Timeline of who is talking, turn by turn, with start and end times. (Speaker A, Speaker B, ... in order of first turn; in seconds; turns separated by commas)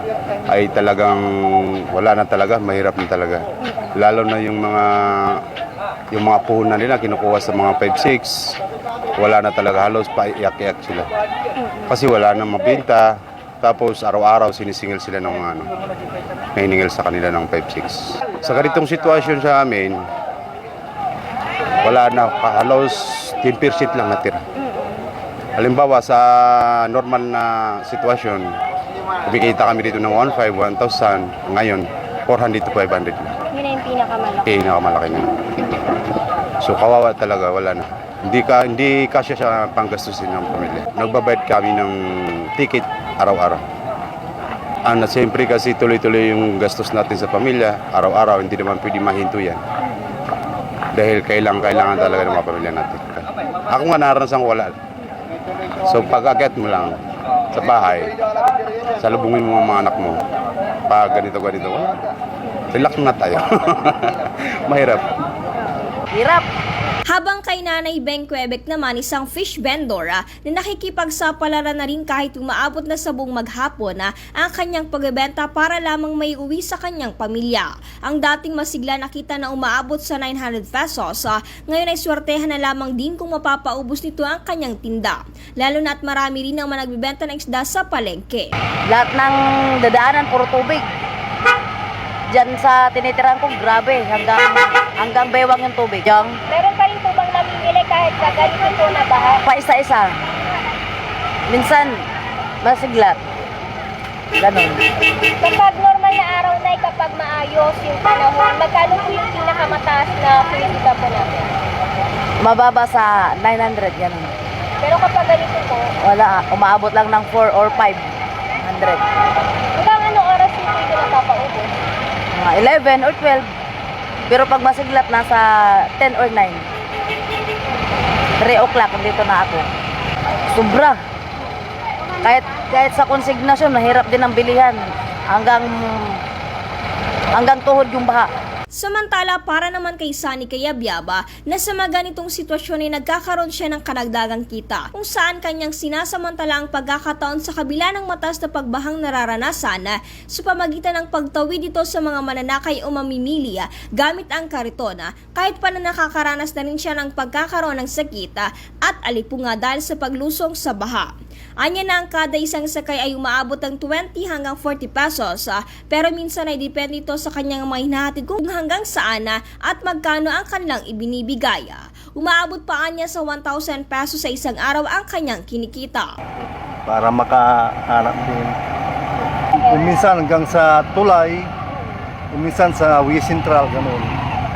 Speaker A: 0.5-5.4, Speaker A: 6.1-8.6, Speaker A: 9.1-11.1, Speaker A: 11.8-13.1, Speaker A: 13.6-15.7, Speaker A: 16.6-20.0, Speaker A: 21.8-24.4, Speaker A: 25.6-28.4, Speaker A: 29.3-33.3, Speaker B: 33.8-34.4, Speaker A: 34.4-35.8, Speaker A: 36.6-43.6, Speaker A: 44.8-49.6, Speaker A: 50.9-54.7, Speaker A: 55.8-57.0, Speaker A: 57.5-58.1, Speaker A: 59.0-60.2, Speaker A: 60.9-62.0, Speaker A: 62.7-65.1, Speaker C: 66.1-66.4, Speaker D: 67.1-88.5, Speaker C: 88.9-90.8, Speaker C: 92.3-96.3, Speaker B: 96.5-99.4, Speaker C: 99.5-100.1, Speaker C: 101.5-101.9, Speaker C: 102.6-103.2, Speaker C: 104.4-104.8, Speaker B: 105.4-111.5, Speaker C: 112.4-114.3, Speaker B: 114.8-115.9, Speaker C: 116.0-118.1, Speaker C: 118.6-119.0, Speaker B: 119.8-121.7, Speaker C: 122.3-123.5, Speaker C: 124.3-126.6, Speaker C: 128.4-129.6, Speaker C: 130.5-131.0, Speaker C: 132.2-134.8, Speaker C: 135.3-136.2, Speaker C: 137.3-138.3, Speaker D: 138.8-176.1, Speaker E: 176.8-178.6, Speaker E: 179.5-181.5, Speaker E: 182.3-184.2